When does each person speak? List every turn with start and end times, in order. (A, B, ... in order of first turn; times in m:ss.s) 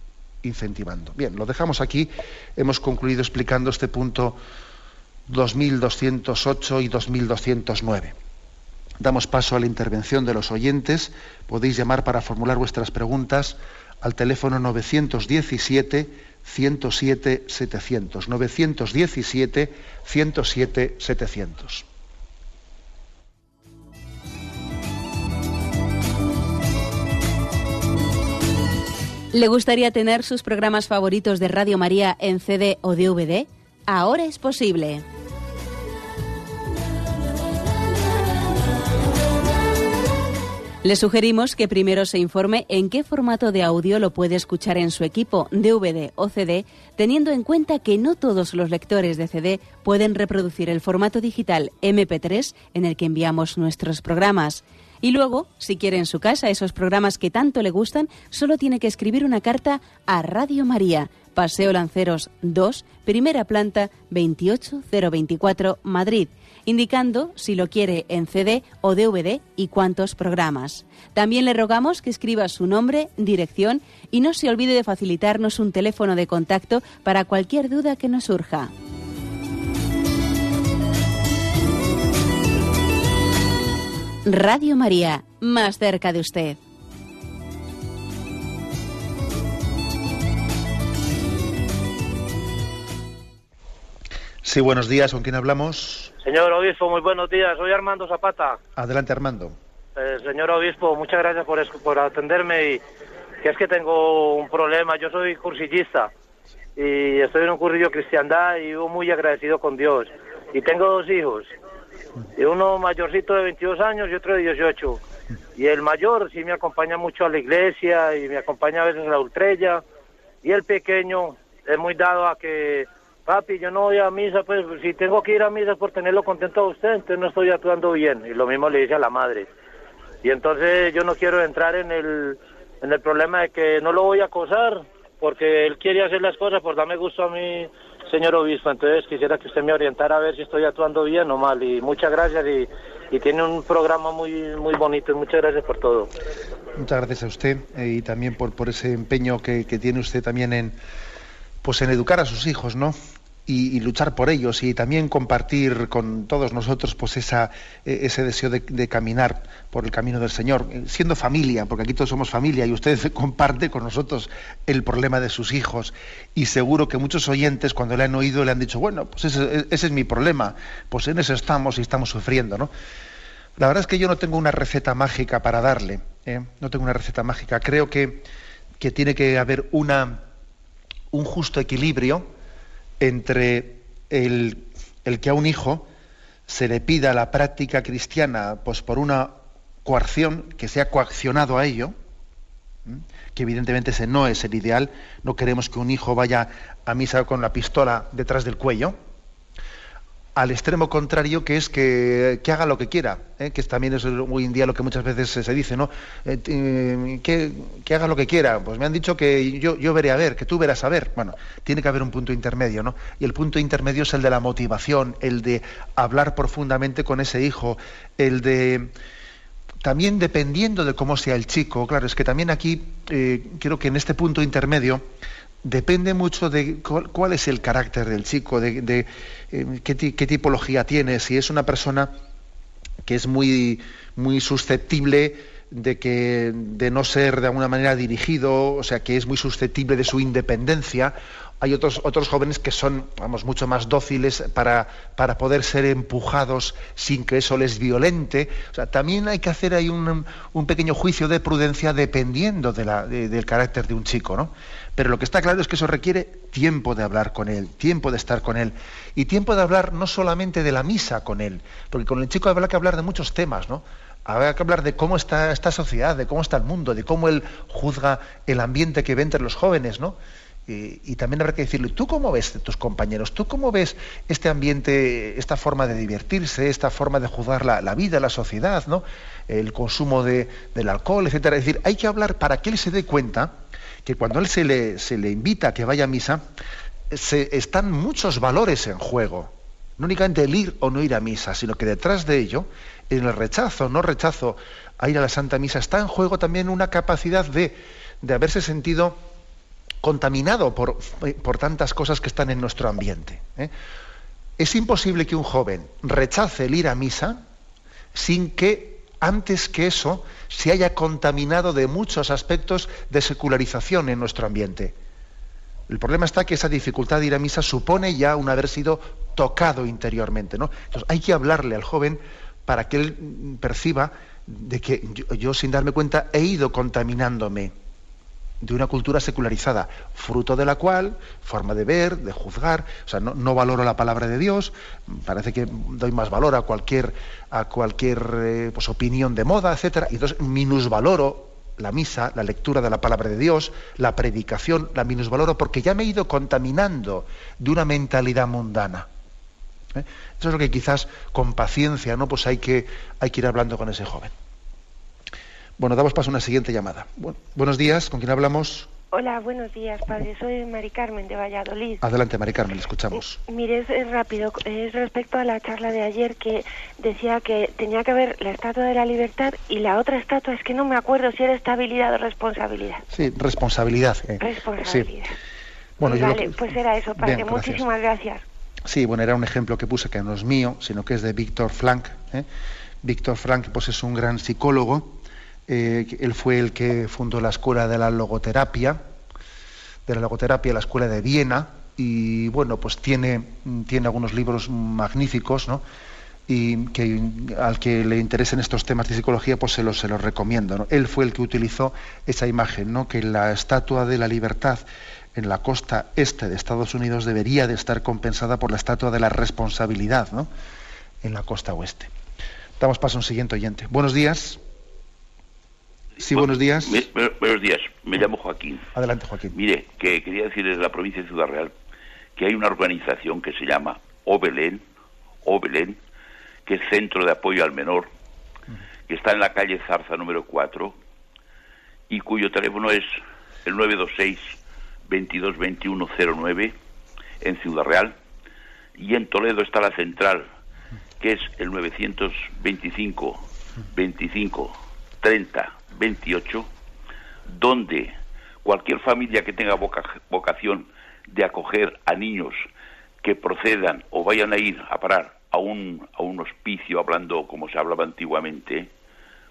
0:00.4-0:04.4 A
0:05.3-0:08.1 A
0:09.0-0:21.9 A
0:29.3-0:35.0 B
0:40.8-1:18.7 B
1:24.2-1:26.6 B
1:34.4-1:36.1 A
1:36.2-1:38.6 C
1:38.8-1:39.6 A
1:40.0-1:42.8 C
1:43.4-1:46.1 C
1:46.8-1:51.5 C
1:52.4-1:55.0 C
1:55.6-1:59.8 C
2:00.4-2:09.5 C
2:10.2-2:26.1 C
2:26.8-2:30.8 A
2:31.6-2:52.7 A
2:53.6-2:58.3 A
2:58.8-3:00.2 A
3:01.1-3:02.3 A
3:03.0-3:05.9 A
3:06.5-3:12.0 A
3:12.9-3:19.0 A
3:20.4-3:38.9 A
3:39.8-3:45.0 A
3:45.6-3:52.1 A
3:53.0-4:43.5 A
4:44.0-4:46.4 A
4:47.1-4:59.2 A
5:00.0-5:03.7 A
5:04.6-5:07.4 A
5:08.1-5:15.0 A
5:15.9-5:27.7 A
5:28.6-5:49.1 A
5:49.9-5:54.3 A
5:55.8-5:58.9 A
5:59.1-6:02.0 D
6:02.0-6:03.4 A
6:03.5-6:13.0 D
6:13.1-6:15.1 A
6:14.4-6:15.4 D
6:16.0-6:16.6 A
6:16.0-6:18.4 D
6:17.1-6:17.9 A
6:18.9-6:22.5 A
6:23.0-6:29.0 A
6:30.1-6:35.8 A
6:36.5-6:50.5 A
6:51.2-6:52.1 A
6:52.8-6:54.6 A
6:56.2-6:57.1 A
6:56.4-6:58.9 E
6:58.9-6:59.6 A
6:59.5-7:01.7 E
7:02.4-7:04.8 E
7:05.4-7:06.0 E
7:06.7-7:08.1 E
7:09.1-7:11.0 E
7:12.1-7:13.1 E
7:13.6-7:14.6 E
7:15.1-7:16.8 E
7:17.4-7:18.2 E
7:19.0-7:20.5 E
7:21.2-7:26.7 E
7:27.5-7:32.6 E
7:33.2-7:38.9 E